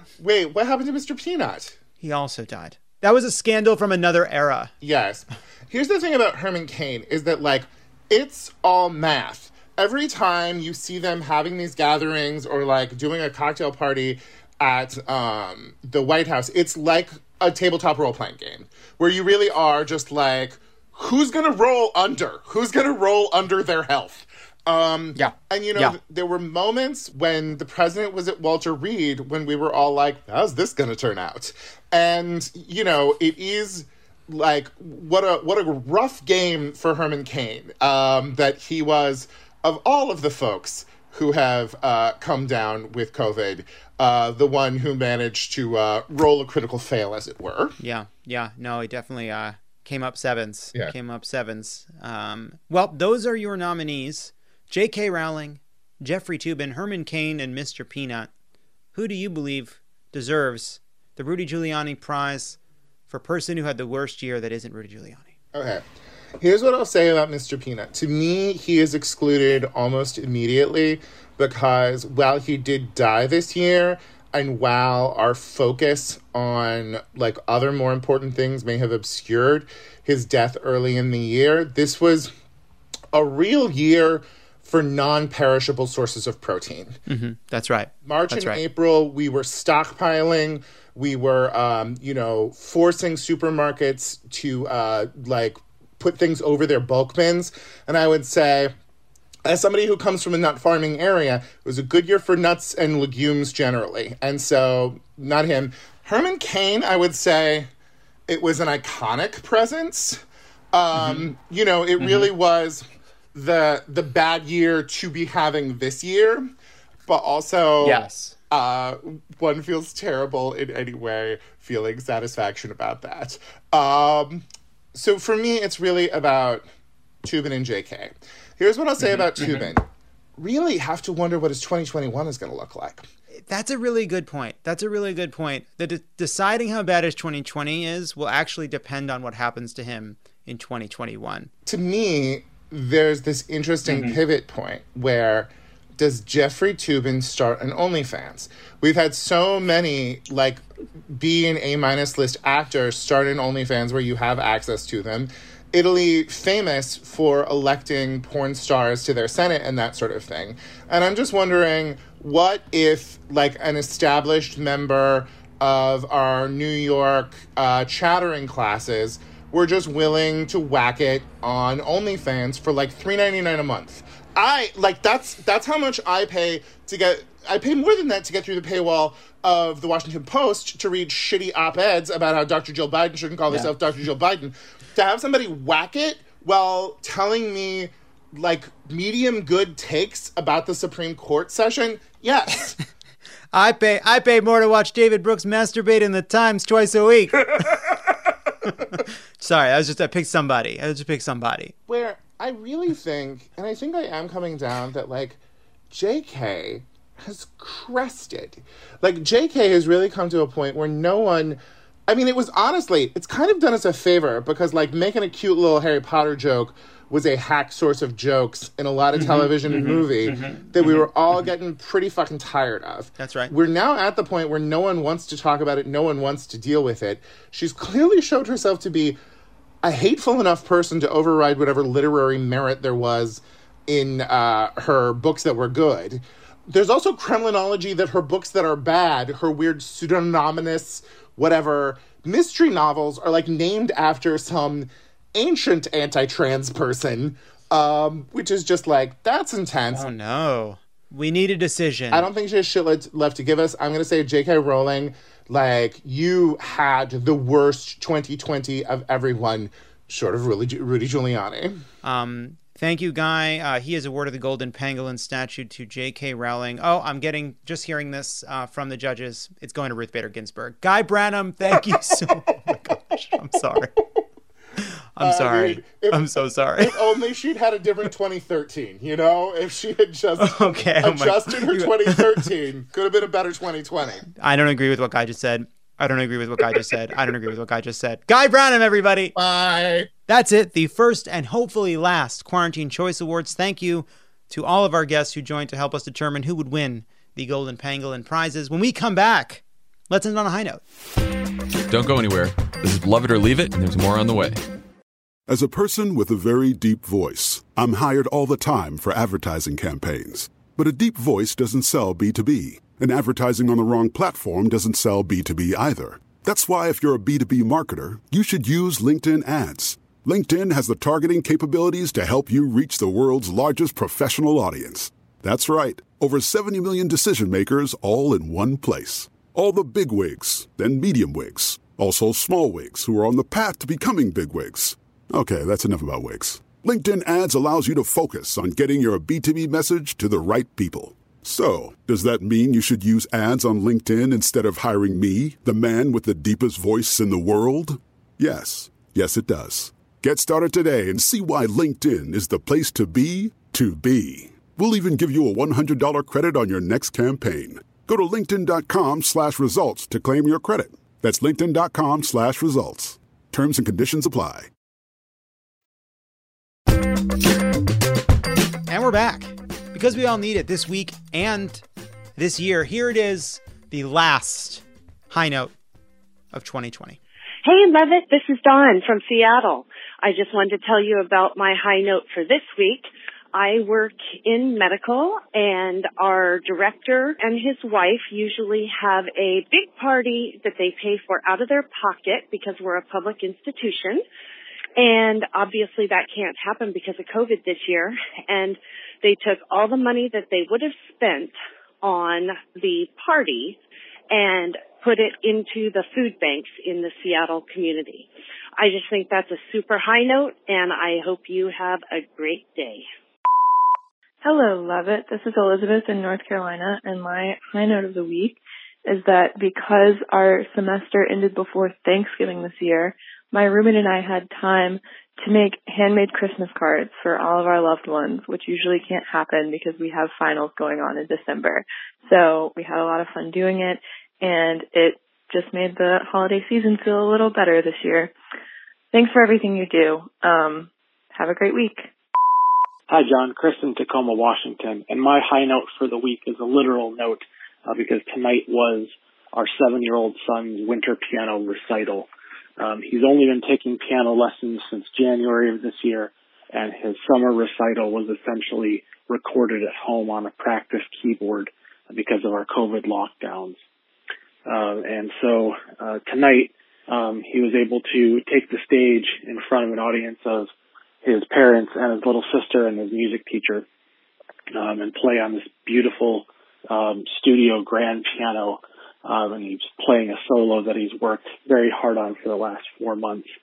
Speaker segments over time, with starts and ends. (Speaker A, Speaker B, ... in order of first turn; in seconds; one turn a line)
Speaker A: 0.2-1.8
Speaker B: 2.0-4.7
Speaker A: 4.8-47.7
Speaker B: 25.1-26.0
Speaker B: 47.8-58.3
Speaker B: 58.9-62.6
Speaker B: 63.1-65.3
Speaker A: 65.5-65.8
Speaker A: 66.4-82.3
Speaker A: 83.1-87.0
Speaker B: 87.1-88.6
Speaker A: 88.0-98.7
Speaker A: 99.4-107.7
Speaker A: 108.3-110.2
Speaker A: 110.7-116.5
Speaker B: 110.9-111.3
Speaker B: 112.0-112.3
Speaker A: 117.1-126.6
Speaker B: 117.8-118.3
Speaker A: 127.2-129.8
Speaker B: 129.1-129.7
Speaker A: 130.4-133.1
Speaker B: 133.3-141.5
Speaker A: 141.7-192.8
Speaker B: 143.9-144.2
Speaker B: 193.5-197.8
Speaker B: 198.6-201.7
Speaker A: 201.9-205.4
Speaker A: 205.9-229.2
Speaker B: 219.1-221.1
Speaker B: 223.2-223.5
Speaker A: 229.8-250.0
Speaker B: 249.9-252.3
Speaker A: 252.1-261.8
Speaker B: 262.0-273.9
Speaker B: 275.1-277.0
Speaker A: 275.2-284.2
Speaker B: 280.4-282.5
Speaker B: 284.3-289.3
Speaker A: 289.3-290.1
Speaker B: 290.3-300.8
Speaker C: 301.9-304.6
Speaker D: 305.5-364.7
Speaker B: 368.9-371.8
Speaker B: 372.4-375.7
Speaker B: 376.5-377.2
Speaker E: 377.6-394.2
Speaker E: 395.0-403.8
Speaker E: 404.3-413.1
Speaker F: 414.4-438.3
Speaker F: 439.1-442.1
Speaker G: 443.1-452.3
Speaker G: 452.8-463.8
Speaker G: 464.7-470.7
Speaker G: 471.2-473.9
Speaker G: 474.7-483.5